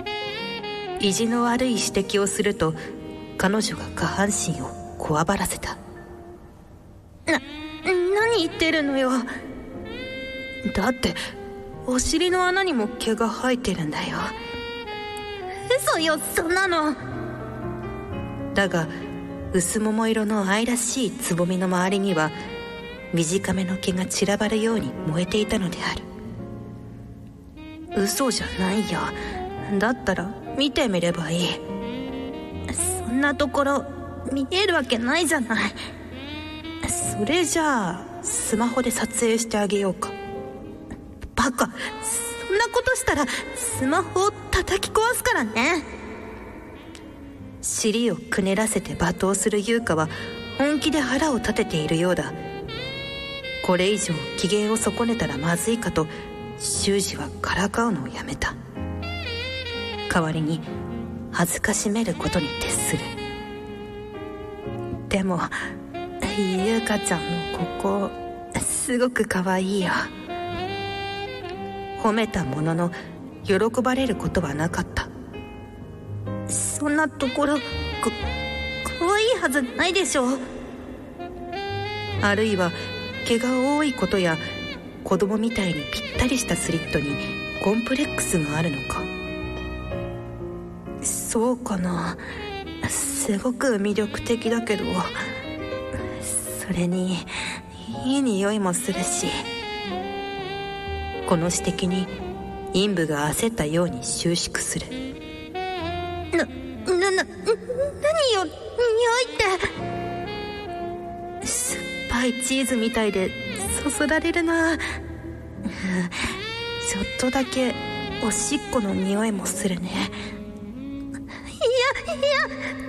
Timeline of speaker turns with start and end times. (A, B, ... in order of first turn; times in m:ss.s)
0:01.0-0:02.8 A
0:03.4-0:05.8 A
0:07.3-0:09.3 A
0:10.7-0:11.2 A
0:11.9-0:14.3 A
0:15.7-0:17.0 A
0:18.5-0:18.9 A
0:19.5-0:22.4 A
0:23.1-0:26.0 A
0:27.9-0:31.6 A
0:32.7-0:35.8 A
0:36.8-0:40.2 A
0:41.4-0:45.9 A
0:47.6-0:52.4 A
0:53.6-0:58.6 A
1:00.1-1:00.7 A
1:01.3-1:03.1 A
1:05.1-1:05.6 A
1:06.2-1:10.1 A
1:12.0-1:15.1 A
1:16.5-1:18.2 A
1:18.8-1:20.4 A
1:22.2-1:24.4 A
1:25.0-1:29.1 A
1:31.0-1:32.2 A
1:32.8-1:35.1 A
1:36.1-1:37.3 A
1:37.8-1:39.4 A
1:41.3-1:42.1 A
1:42.7-1:45.0 A
1:46.3-1:49.7 A
1:51.4-1:54.8 A
1:55.7-1:56.3 A
1:56.8-2:00.2 A
2:01.5-2:02.5 A